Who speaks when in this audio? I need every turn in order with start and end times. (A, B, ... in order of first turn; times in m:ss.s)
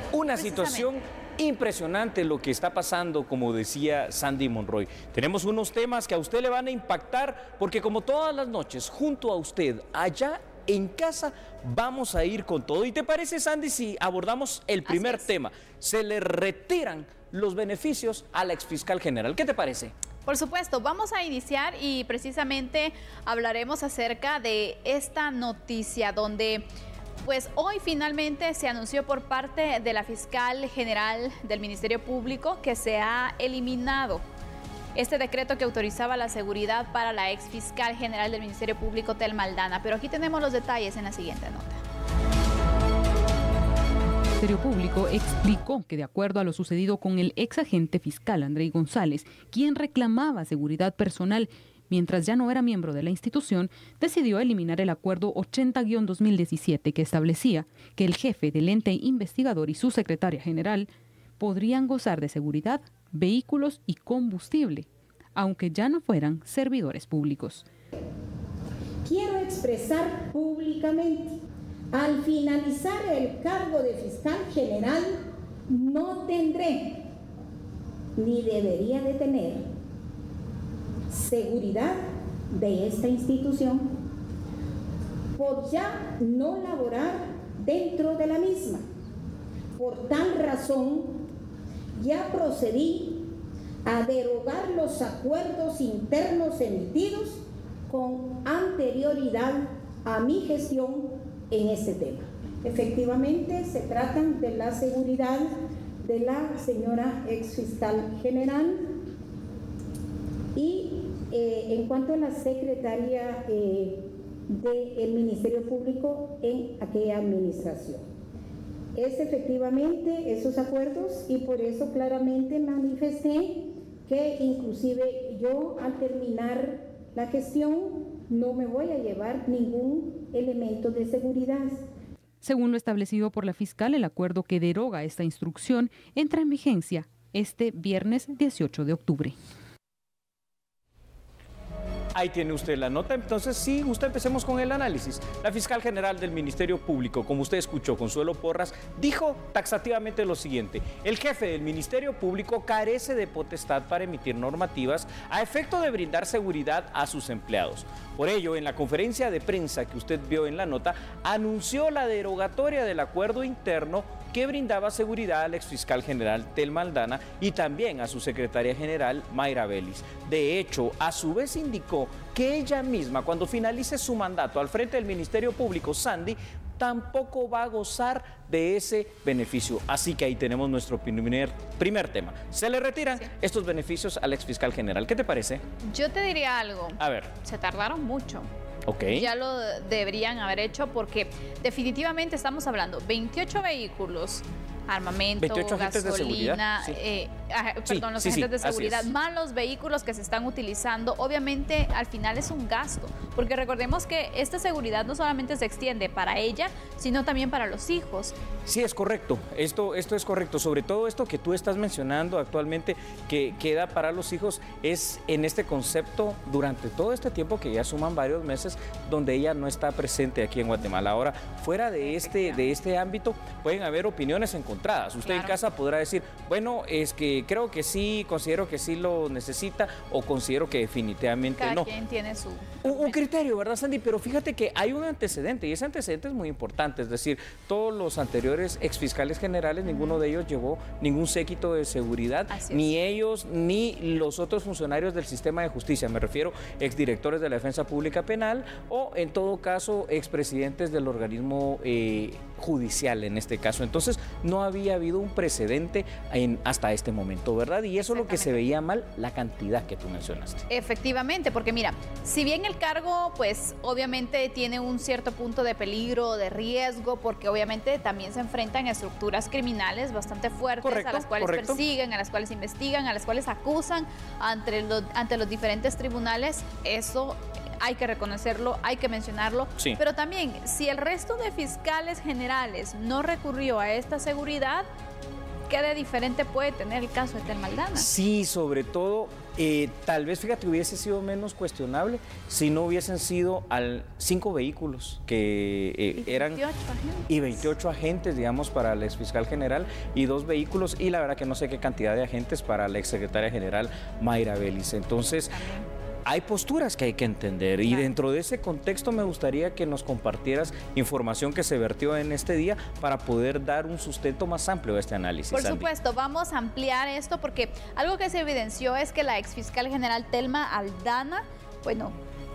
0:00.1-0:19.9 A
0:00.4-0:00.9 B
0:14.8-0:15.3 B
0:20.3-0:26.6 B
0:27.2-0:34.2 B
0:35.0-0:41.8 B
0:44.4-1:07.7 C
1:09.0-1:11.4 D
1:11.9-1:15.2 D
1:15.7-1:17.1 D
1:18.2-1:19.6 D
1:21.1-1:23.9 D
1:25.4-1:28.8 D
1:29.8-1:31.3 D
1:32.0-1:33.3 D
1:33.8-1:45.5 D
1:46.0-1:48.9 D
1:50.6-1:58.0 D
1:59.0-2:11.9 D
2:12.4-2:19.4 C
2:22.2-3:05.6 A
3:05.8-3:08.5 B
3:07.0-3:07.3 A
3:08.9-3:09.3 A
3:09.1-3:28.3 B
3:15.4-3:17.0 A
3:17.9-3:19.1 A
3:28.7-3:51.9 A
3:42.0-3:42.7 B
3:45.2-3:45.6 B
3:51.6-3:53.2 B
3:52.8-4:20.7 A
3:59.9-4:00.2 B
4:02.5-4:02.9 B
4:18.0-4:18.8 B
4:20.7-4:44.9 B
4:30.8-4:31.8 A
4:45.7-4:48.1 B
4:48.0-4:56.6 A
4:56.2-4:57.7 B
4:57.3-5:05.5 A
5:05.5-5:05.9 B
5:06.3-5:15.9 A
5:07.8-5:08.1 B
5:15.5-5:22.1 B